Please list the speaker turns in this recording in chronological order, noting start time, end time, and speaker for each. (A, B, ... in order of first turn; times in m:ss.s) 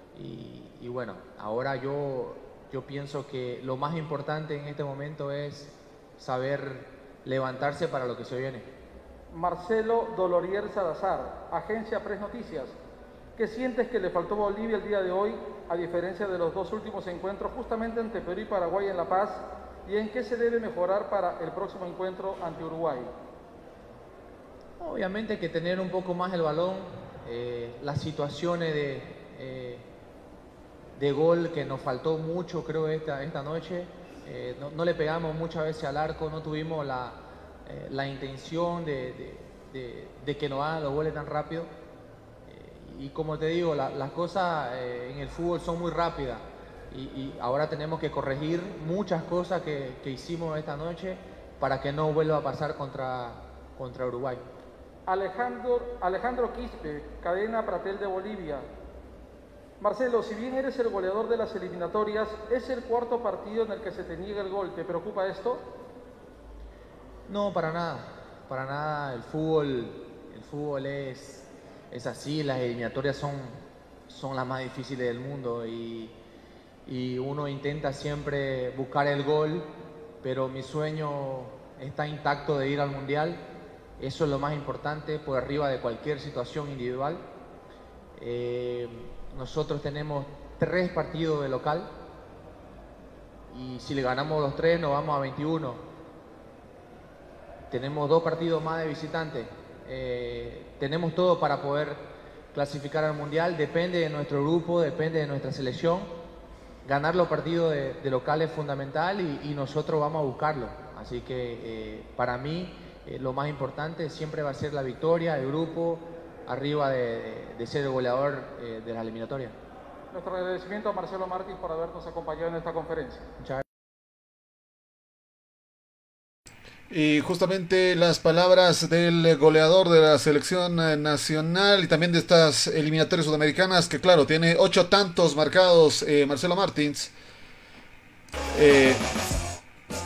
0:00.1-0:08.7 A
0:09.3-0:12.8 B
0:13.4-0:23.1 B
0:24.8-0:29.8 A
0:31.0-0:41.7 A
0:42.5-0:54.5 A
0:55.1-0:58.7 B
0:59.8-1:05.7 B
1:07.3-1:16.1 A
1:16.9-1:19.7 A
1:20.2-1:23.4 A
1:24.0-1:27.2 A
1:28.2-1:31.9 A
1:33.5-1:35.8 A
1:37.7-1:46.1 A
1:46.8-1:59.6 A
2:00.1-2:03.2 B
2:06.9-2:17.1 C
2:18.5-2:19.0 C